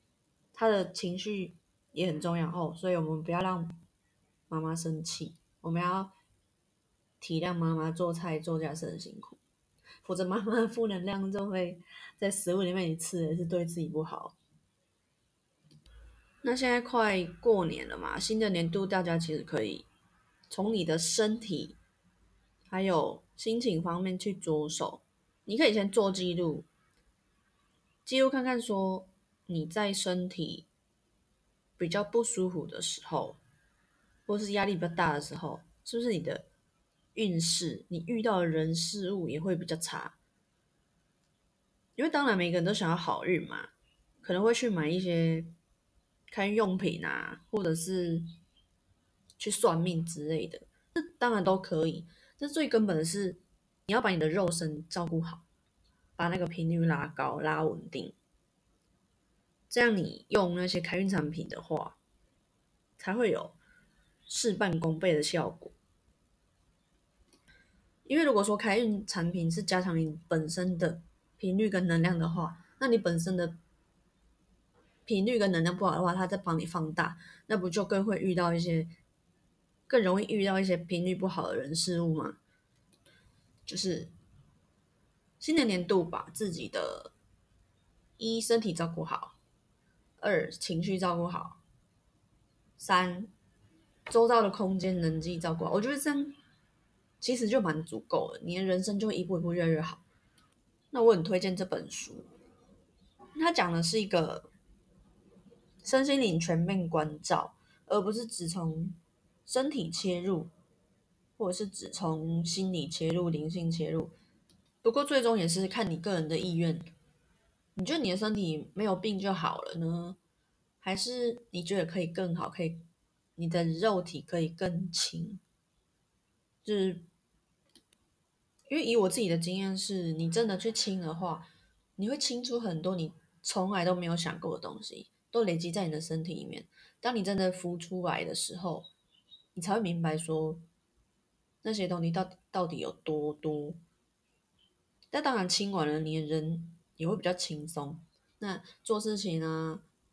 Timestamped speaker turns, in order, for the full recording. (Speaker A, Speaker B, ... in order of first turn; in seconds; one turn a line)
Speaker A: 0.5-3.8
Speaker A: 4.5-6.1
Speaker A: 7.2-9.4
Speaker A: 10.0-14.4
Speaker A: 16.4-19.9
Speaker A: 20.5-21.8
Speaker A: 22.7-26.7
Speaker A: 28.1-30.7
Speaker A: 31.8-33.4
Speaker A: 34.3-36.5
Speaker A: 37.1-40.2
Speaker A: 42.0-43.7
Speaker A: 44.2-45.5
Speaker A: 46.3-48.3
Speaker A: 49.4-55.5
Speaker A: 56.2-58.1
Speaker A: 59.7-62.0
Speaker A: 63.0-63.6
Speaker A: 64.3-65.8
Speaker A: 68.1-73.6
Speaker A: 75.1-78.9
Speaker A: 79.9-82.4
Speaker A: 83.7-84.1
Speaker A: 85.4-87.1
Speaker A: 88.2-89.4
Speaker A: 90.2-91.6
Speaker A: 92.8-93.3
Speaker A: 94.1-96.4
Speaker A: 97.2-100.0
Speaker A: 100.9-102.3
Speaker A: 103.3-104.5
Speaker A: 105.8-110.5
Speaker A: 111.4-114.2
Speaker A: 114.8-116.9
Speaker A: 117.8-120.2
Speaker A: 120.8-122.9
Speaker A: 123.4-125.4
Speaker A: 126.6-127.1
Speaker A: 128.7-138.9
Speaker A: 139.6-140.7
Speaker A: 141.6-143.8
Speaker A: 145.1-149.8